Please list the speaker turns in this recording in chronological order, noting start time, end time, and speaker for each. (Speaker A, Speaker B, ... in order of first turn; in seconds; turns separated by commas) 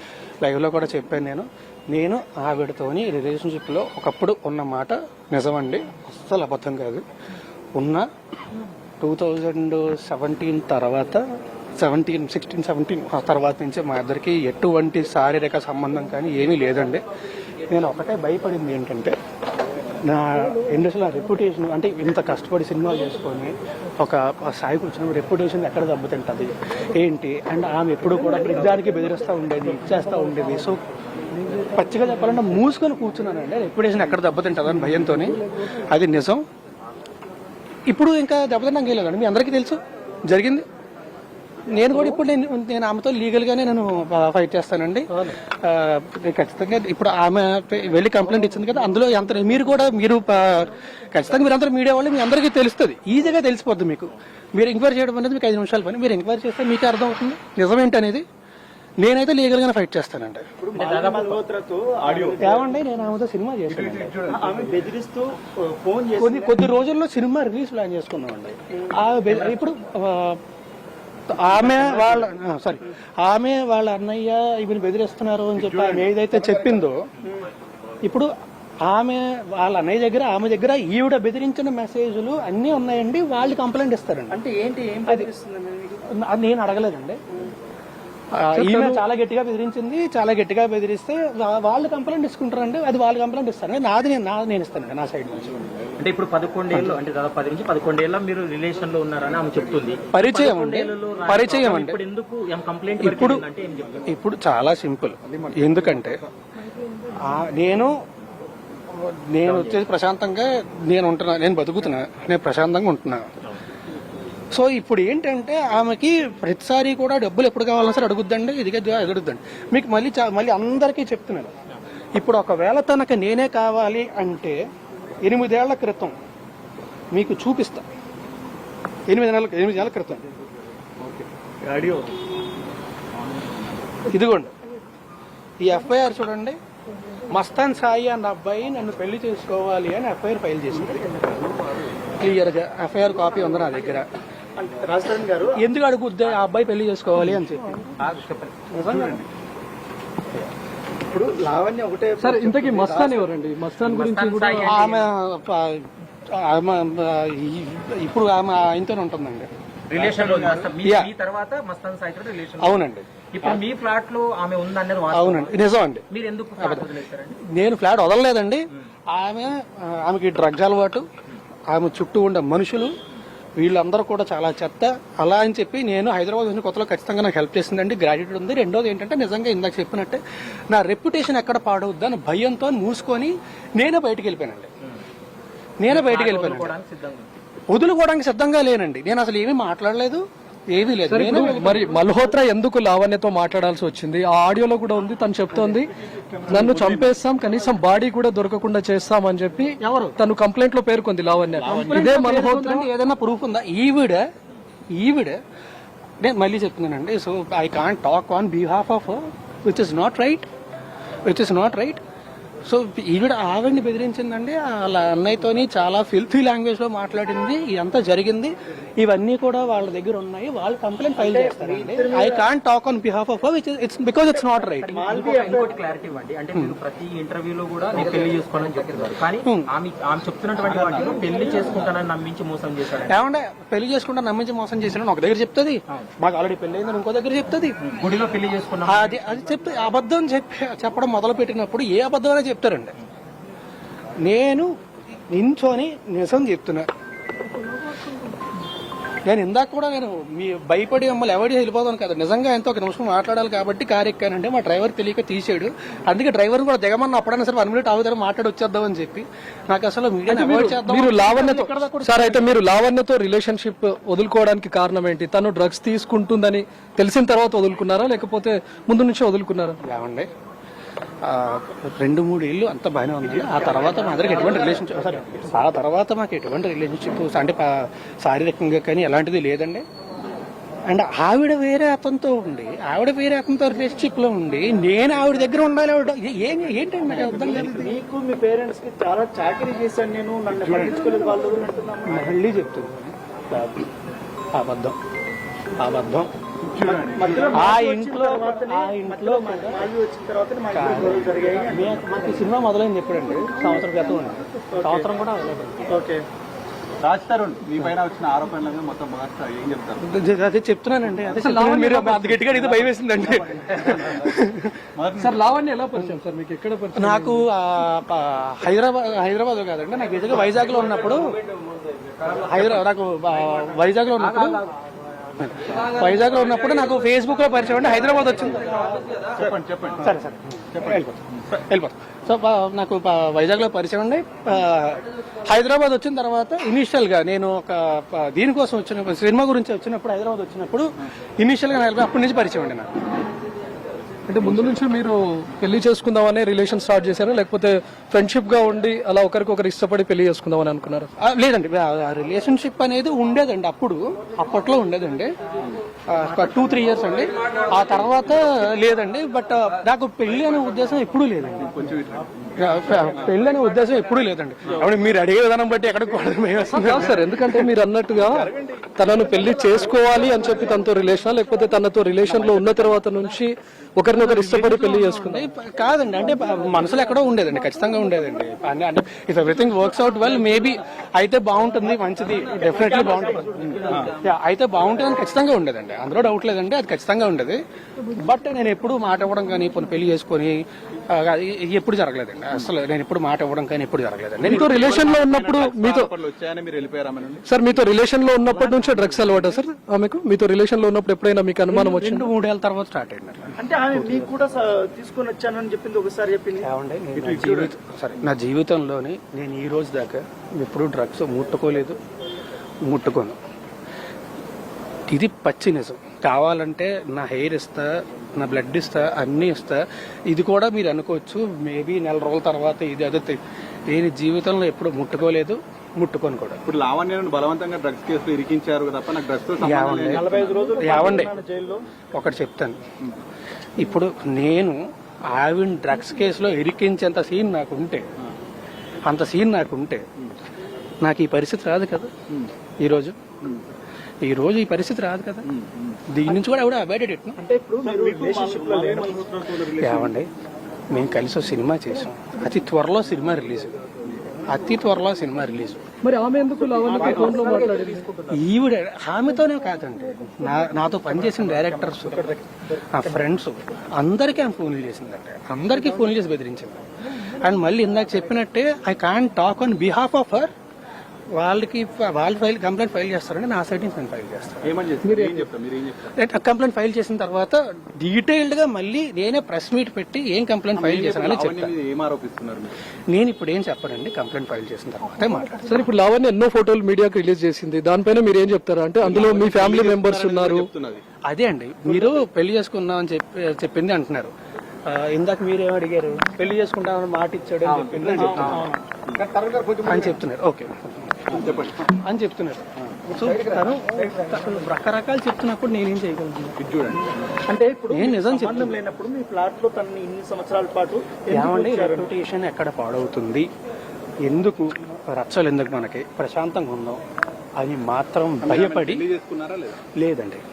Speaker A: 0.4-7.0, Speaker A: 7.7-8.1, Speaker A: 9.0-11.2, Speaker A: 11.8-17.0, Speaker A: 17.7-19.2, Speaker A: 20.0-30.8, Speaker A: 31.6-36.4, Speaker A: 37.9-40.6, Speaker A: 41.7-58.2, Speaker A: 59.0-60.5, Speaker B: 60.6-62.7, Speaker C: 60.7-61.4, Speaker D: 62.1-62.4, Speaker A: 62.4-64.2, Speaker D: 63.7-64.9, Speaker B: 64.3-66.5, Speaker A: 66.2-70.4, Speaker C: 69.3-69.6, Speaker A: 71.3-77.1, Speaker D: 75.6-76.5, Speaker A: 78.0-78.3, Speaker A: 78.8-84.4, Speaker B: 84.3-86.0, Speaker A: 86.1-87.2, Speaker A: 88.3-95.6, Speaker E: 88.5-89.0, Speaker C: 96.0-104.0, Speaker A: 100.1-102.0, Speaker A: 103.0-103.4, Speaker A: 104.0-106.2, Speaker A: 107.2-107.9, Speaker A: 108.9-113.2, Speaker C: 109.4-109.8, Speaker A: 114.5-121.5, Speaker A: 122.1-124.6, Speaker A: 125.2-126.1, Speaker A: 127.1-127.9, Speaker A: 129.1-130.2, Speaker B: 131.7-132.0, Speaker A: 134.1-134.5, Speaker A: 135.6-136.6, Speaker A: 137.3-141.2, Speaker A: 142.2-144.1, Speaker B: 144.6-145.6, Speaker A: 145.5-147.9, Speaker C: 148.0-148.6, Speaker A: 148.7-149.2, Speaker B: 151.1-153.2, Speaker E: 152.2-154.8, Speaker C: 153.8-155.1, Speaker A: 154.6-159.5, Speaker C: 159.9-167.4, Speaker D: 159.9-160.7, Speaker A: 160.8-161.1, Speaker A: 162.6-163.1, Speaker A: 165.1-166.0, Speaker A: 166.6-166.9, Speaker A: 167.4-171.1, Speaker A: 171.7-172.9, Speaker A: 173.6-184.7, Speaker A: 185.8-186.7, Speaker C: 185.9-187.3, Speaker A: 187.7-191.8, Speaker E: 191.1-195.9, Speaker E: 196.5-202.9, Speaker A: 199.8-200.2, Speaker A: 201.6-204.3, Speaker A: 204.9-205.4, Speaker A: 206.2-210.4, Speaker A: 211.2-212.0, Speaker A: 212.6-224.9, Speaker B: 221.2-222.4, Speaker C: 224.8-233.2, Speaker B: 224.8-225.7, Speaker A: 229.4-229.7, Speaker D: 230.7-231.1, Speaker A: 233.1-237.9, Speaker C: 237.8-239.2, Speaker A: 238.8-242.9, Speaker A: 244.2-244.7, Speaker A: 245.3-246.9, Speaker A: 249.2-262.6, Speaker E: 260.3-269.8, Speaker A: 269.8-270.3, Speaker A: 271.2-279.8, Speaker C: 273.5-275.1, Speaker A: 280.9-287.9, Speaker B: 287.1-292.4, Speaker D: 290.5-291.0, Speaker A: 292.1-292.9, Speaker A: 293.5-293.9, Speaker A: 294.5-295.0, Speaker A: 295.8-296.3, Speaker D: 296.6-297.6, Speaker B: 296.8-302.3, Speaker A: 297.5-299.9, Speaker A: 300.7-305.9, Speaker B: 304.7-305.1, Speaker B: 305.9-306.2, Speaker D: 307.0-310.1, Speaker A: 310.0-314.7, Speaker E: 311.3-312.4, Speaker D: 312.6-314.3, Speaker D: 314.9-315.4, Speaker E: 315.2-317.4, Speaker A: 316.9-321.3, Speaker A: 322.3-324.6, Speaker C: 324.2-324.7, Speaker A: 325.4-329.1, Speaker D: 329.4-330.1, Speaker A: 330.0-342.9, Speaker D: 330.7-331.0, Speaker E: 344.3-351.1, Speaker A: 351.2-355.3, Speaker A: 356.1-361.7, Speaker D: 361.7-362.7, Speaker A: 362.6-367.7, Speaker E: 366.7-375.4, Speaker D: 368.3-368.6, Speaker A: 372.4-373.0, Speaker A: 374.1-387.6, Speaker B: 382.5-384.1, Speaker D: 383.8-384.1, Speaker A: 388.1-394.8, Speaker E: 394.4-396.1, Speaker D: 394.5-397.4, Speaker E: 397.5-402.3, Speaker A: 398.5-399.2, Speaker A: 401.7-404.3, Speaker B: 403.6-407.7, Speaker A: 406.6-412.0, Speaker A: 412.9-413.4, Speaker A: 415.1-426.6, Speaker D: 426.6-430.7, Speaker A: 429.6-431.3, Speaker B: 430.1-431.8, Speaker A: 432.1-432.8, Speaker A: 433.8-434.8, Speaker A: 435.3-438.1, Speaker A: 439.1-440.0, Speaker A: 441.0-442.1, Speaker A: 442.8-443.2, Speaker A: 444.2-445.5, Speaker D: 445.5-446.0, Speaker A: 446.1-447.4, Speaker C: 447.4-449.1, Speaker B: 447.8-449.6, Speaker D: 448.6-450.0, Speaker A: 449.7-450.3, Speaker A: 450.9-453.8, Speaker D: 454.0-454.4, Speaker A: 454.5-455.8, Speaker E: 456.0-458.1, Speaker B: 456.7-457.7, Speaker C: 456.9-458.4, Speaker A: 458.3-462.3, Speaker C: 461.3-462.4, Speaker A: 462.9-466.8, Speaker A: 467.4-470.5, Speaker A: 471.3-474.7, Speaker D: 474.6-476.1, Speaker E: 475.0-475.4, Speaker A: 476.1-481.7, Speaker D: 480.7-482.8, Speaker A: 483.1-485.7, Speaker E: 485.6-490.7, Speaker D: 489.0-491.0, Speaker A: 491.2-494.3, Speaker A: 494.8-498.6, Speaker C: 497.6-498.7, Speaker B: 498.1-498.8, Speaker D: 499.1-500.1, Speaker A: 499.8-506.6, Speaker D: 501.3-501.8, Speaker D: 506.6-507.4, Speaker B: 507.5-512.1, Speaker A: 507.9-508.8, Speaker A: 511.3-513.5, Speaker A: 514.2-517.0, Speaker A: 517.6-519.0, Speaker D: 518.4-519.8, Speaker A: 520.0-520.4